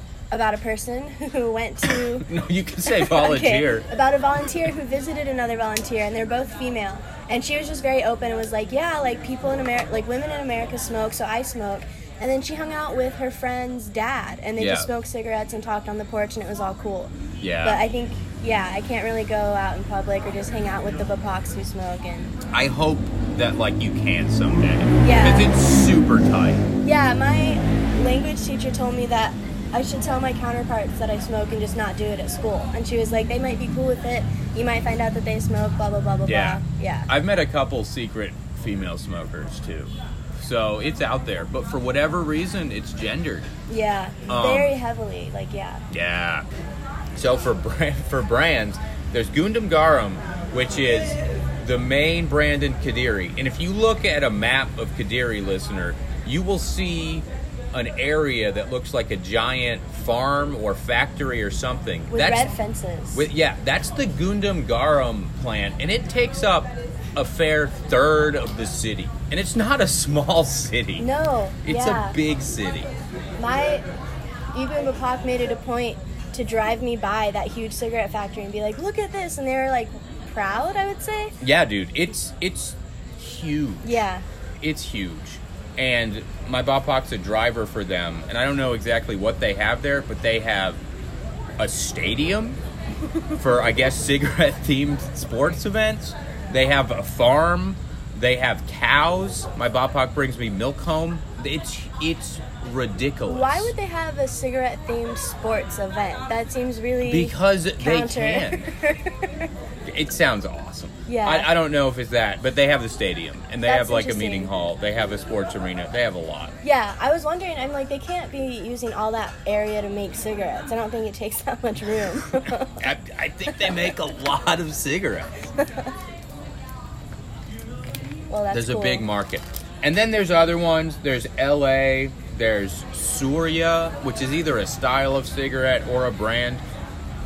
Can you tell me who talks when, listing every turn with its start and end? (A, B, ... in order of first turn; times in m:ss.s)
0:00.3-0:02.3 A
0:02.2-0:03.9 B
0:02.9-0:22.3 A
0:14.6-0:14.9 B
0:17.4-0:17.8 B
0:22.5-0:26.6 B
0:25.0-0:25.5 A
0:26.8-0:37.1 A
0:36.2-0:43.5 B
0:43.7-0:45.8 A
0:44.3-0:44.8 B
0:45.9-0:46.5 B
0:47.2-1:02.5 B
1:02.1-1:03.3 A
1:03.1-1:11.1 B
1:11.0-1:12.2 A
1:11.6-1:12.9 B
1:13.4-1:13.8 A
1:14.5-1:21.4 A
1:21.4-1:24.0 B
1:23.8-1:24.2 A
1:24.6-1:30.8 B
1:31.6-1:32.6 B
1:33.3-1:43.7 B
1:43.2-1:49.5 A
1:47.0-1:48.7 B
1:49.8-1:56.6 B
1:51.1-1:51.5 A
1:53.6-1:54.5 A
1:56.6-2:02.8 A
2:02.8-2:05.5 B
2:03.5-2:03.8 A
2:05.6-2:05.9 A
2:08.3-2:09.1 A
2:08.5-2:16.6 B